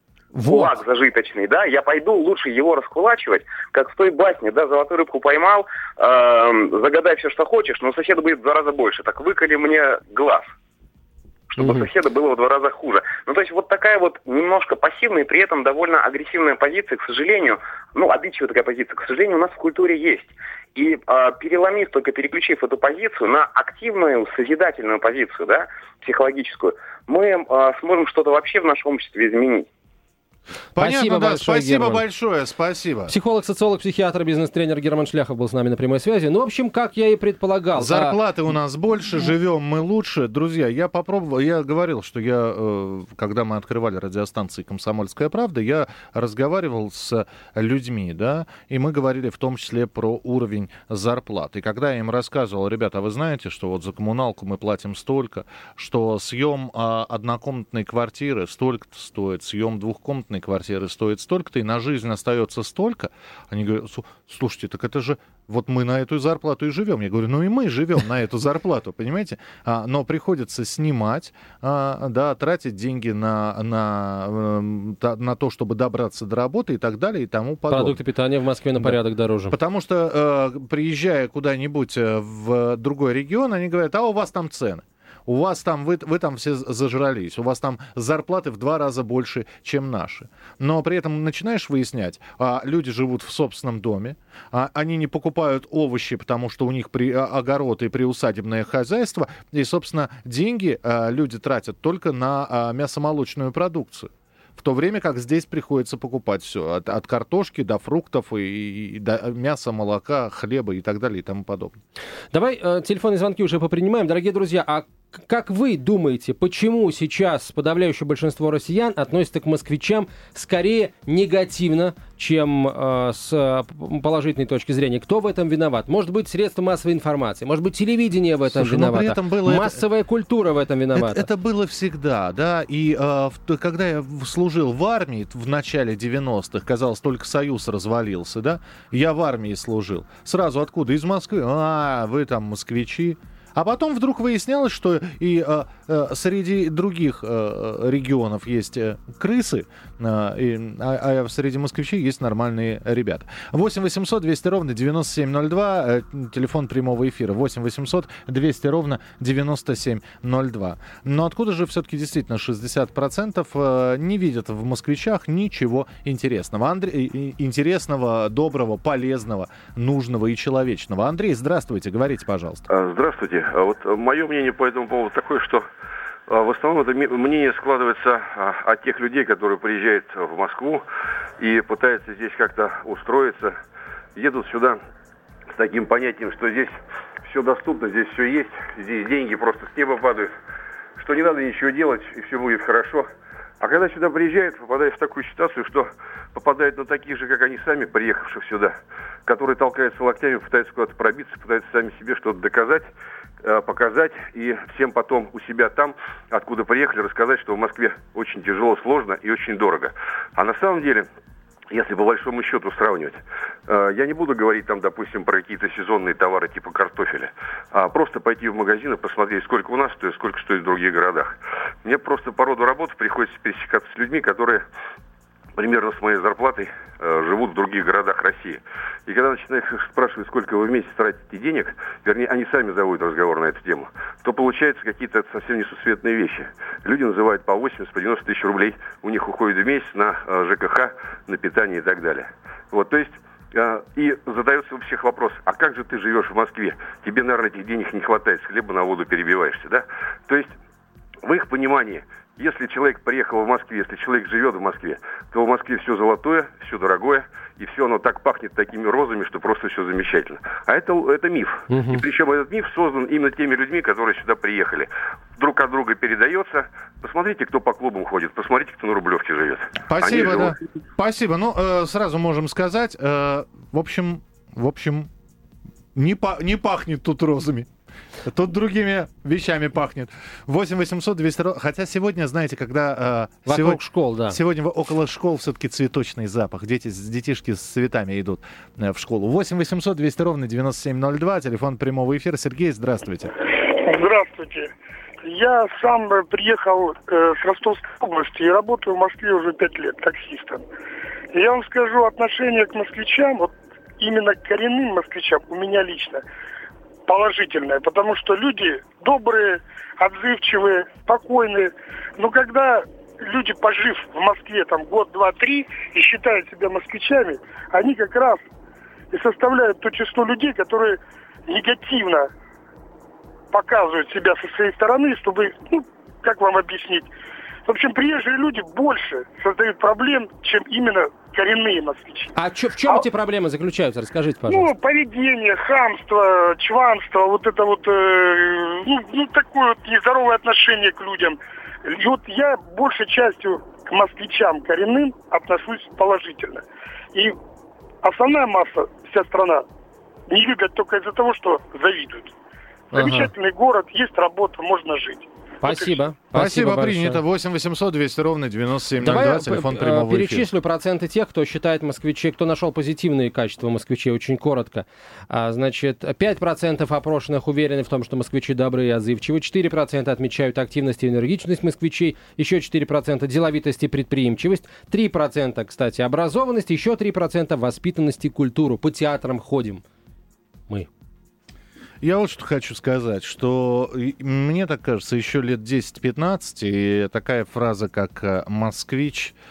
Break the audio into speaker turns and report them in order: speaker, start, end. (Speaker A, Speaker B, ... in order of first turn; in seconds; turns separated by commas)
Speaker A: 0.3-0.7, Speaker B: 0.5-10.5, Speaker B: 11.5-29.7, Speaker A: 11.6-11.9, Speaker C: 30.7-33.1, Speaker A: 30.8-32.0, Speaker A: 33.1-38.2, Speaker C: 37.8-78.0, Speaker A: 77.7-79.5, Speaker C: 79.5-111.8, Speaker A: 112.3-131.3, Speaker C: 128.5-129.8, Speaker C: 130.9-172.7, Speaker D: 172.7-175.7, Speaker D: 176.3-180.8, Speaker D: 181.4-183.6, Speaker D: 184.2-184.8, Speaker D: 185.5-190.3, Speaker D: 191.0-193.1, Speaker D: 193.6-198.8, Speaker D: 199.3-202.9, Speaker D: 203.4-211.1, Speaker D: 211.7-224.6, Speaker D: 225.6-250.5, Speaker D: 251.2-270.6, Speaker A: 261.7-262.0, Speaker C: 269.9-275.1, Speaker C: 275.9-277.7, Speaker C: 278.2-293.3, Speaker A: 283.5-284.4, Speaker E: 293.6-300.7, Speaker E: 301.3-306.2, Speaker E: 307.1-318.5, Speaker E: 319.1-322.3, Speaker E: 323.5-327.1, Speaker E: 327.7-332.3, Speaker A: 332.4-334.7, Speaker E: 334.5-347.4, Speaker E: 348.0-349.6, Speaker E: 350.3-352.3, Speaker E: 352.9-356.0, Speaker A: 352.9-353.2, Speaker A: 355.6-357.2, Speaker C: 356.3-360.5, Speaker A: 359.0-379.8, Speaker C: 382.0-389.4